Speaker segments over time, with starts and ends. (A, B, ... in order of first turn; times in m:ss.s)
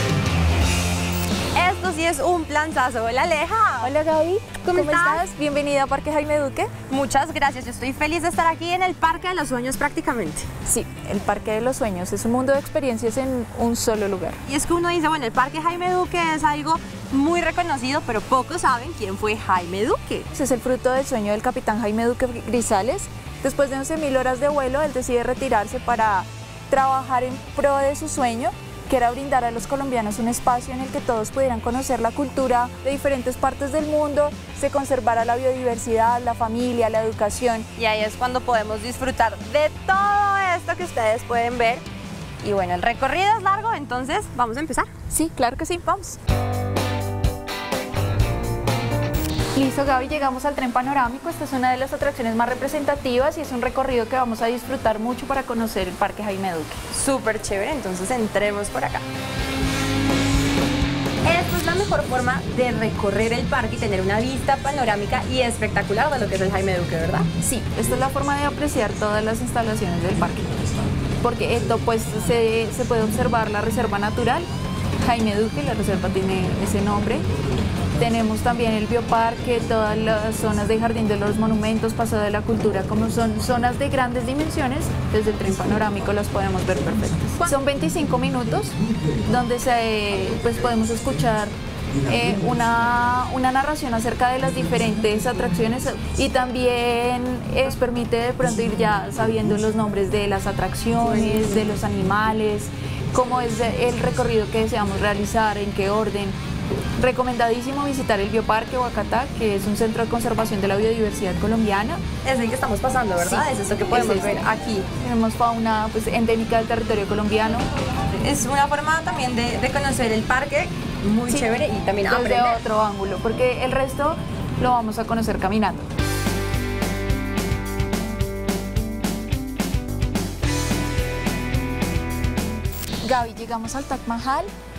0:01.5-0:03.9 A
0:03.8-0:06.7 B
0:04.6-0:05.2 A
0:06.9-0:10.5 A
0:10.6-0:14.4 B
0:14.4-0:20.3 A
0:20.3-0:37.7 B
0:37.8-0:41.8 A
0:42.4-0:44.9 A
0:45.1-0:46.2 B
0:49.5-0:56.8 B
0:56.9-0:59.0 A
1:01.2-1:07.3 A
1:07.4-1:10.6 B
1:11.2-1:14.5 B
1:15.0-1:17.2 B
1:17.9-1:46.4 B
1:41.1-1:41.6 A
1:47.0-1:52.0 B
1:52.2-1:54.9 A
1:53.2-1:54.4 B
1:55.0-1:57.7 B
1:58.2-2:02.6 A
2:02.1-2:05.9 B
2:13.0-2:14.5 B